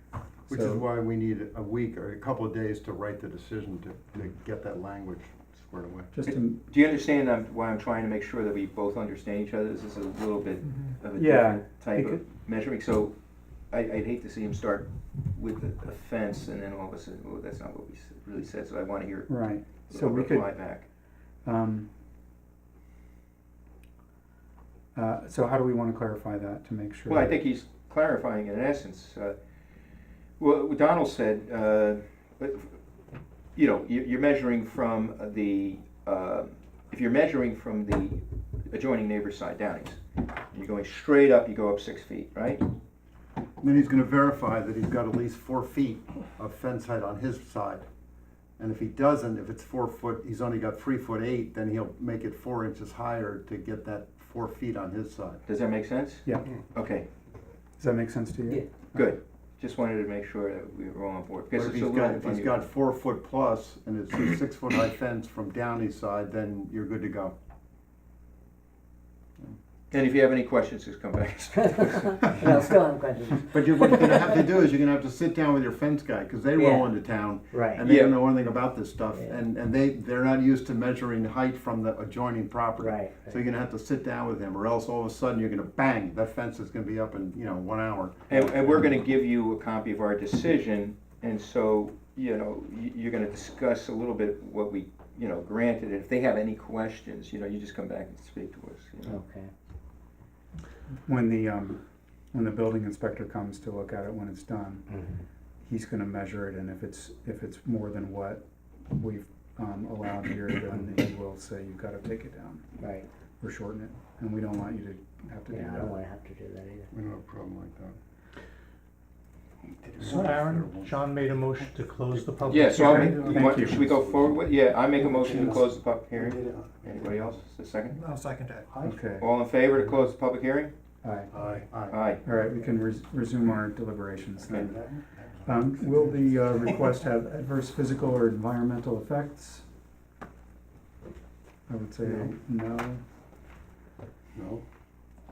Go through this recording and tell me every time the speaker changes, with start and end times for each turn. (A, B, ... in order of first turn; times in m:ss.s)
0:00.5-0:06.1 A
0:00.5-0:00.8 B
0:06.1-0:06.6 B
0:06.2-0:13.1 C
0:11.1-0:12.2 B
0:13.7-0:20.8 C
0:19.3-0:20.5 B
0:21.4-0:21.9 B
0:25.0-0:27.4 B
0:27.1-0:29.3 C
0:30.4-0:32.7 C
0:33.6-0:40.0 C
0:40.5-0:42.7 C
0:43.6-0:47.8 A
0:48.6-0:55.4 A
0:55.5-0:57.1 C
0:57.8-0:59.1 B
0:58.9-1:02.6 C
1:01.5-1:07.3 A
1:09.9-1:12.7 C
1:11.6-1:14.4 D
1:13.5-1:28.8 A
1:16.6-1:16.9 D
1:17.5-1:17.8 D
1:17.8-1:18.2 C
1:22.8-1:23.4 D
1:28.3-1:39.2 C
1:39.1-1:39.5 D
1:41.1-1:44.9 B
1:45.7-1:52.7 B
1:52.8-1:53.1 D
1:53.4-1:56.0 B
1:55.5-1:56.9 D
1:56.9-1:58.0 A
1:59.6-2:01.0 A
2:00.0-2:03.4 E
2:02.5-2:08.0 C
2:02.7-2:03.8 B
2:02.8-2:04.4 A
2:05.0-2:07.4 A
2:07.9-2:08.7 E
2:08.7-2:09.0 A
2:08.8-2:09.3 B
2:09.2-2:10.7 C
2:11.0-2:11.3 B
2:11.3-2:12.0 A
2:11.9-2:12.2 C
2:12.2-2:14.9 B
2:14.4-2:14.7 C
2:14.7-2:16.8 A
2:15.4-2:19.6 B
2:21.7-2:23.0 B
2:22.0-2:22.4 A
2:24.3-2:24.6 A